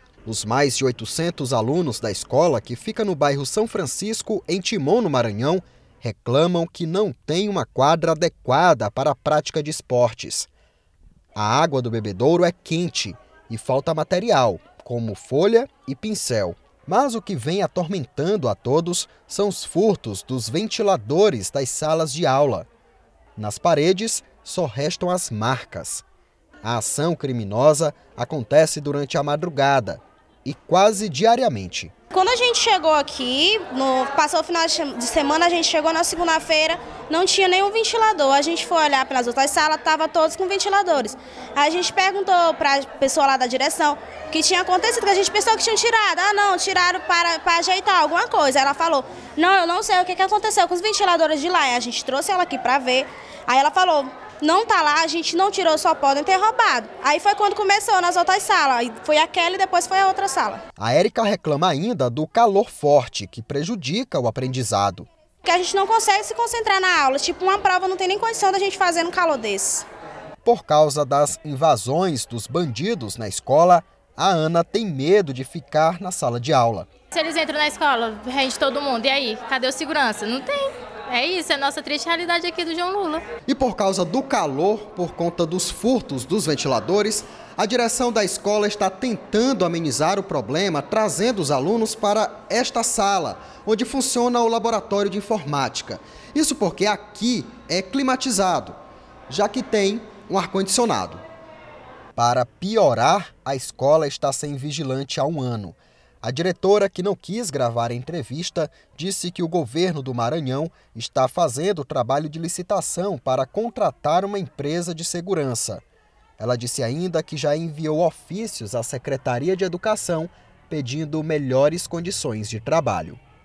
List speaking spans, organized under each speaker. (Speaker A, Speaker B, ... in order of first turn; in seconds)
Speaker A: 0.2-10.5, 11.3-22.6, 23.4-26.0, 26.6-31.9, 60.8-65.1, 70.4-76.9, 83.5-98.8, 99.3-101.2, 102.2-115.8, 116.4-123.2
Speaker B: 32.1-60.6, 65.4-69.8
Speaker C: 77.1-83.2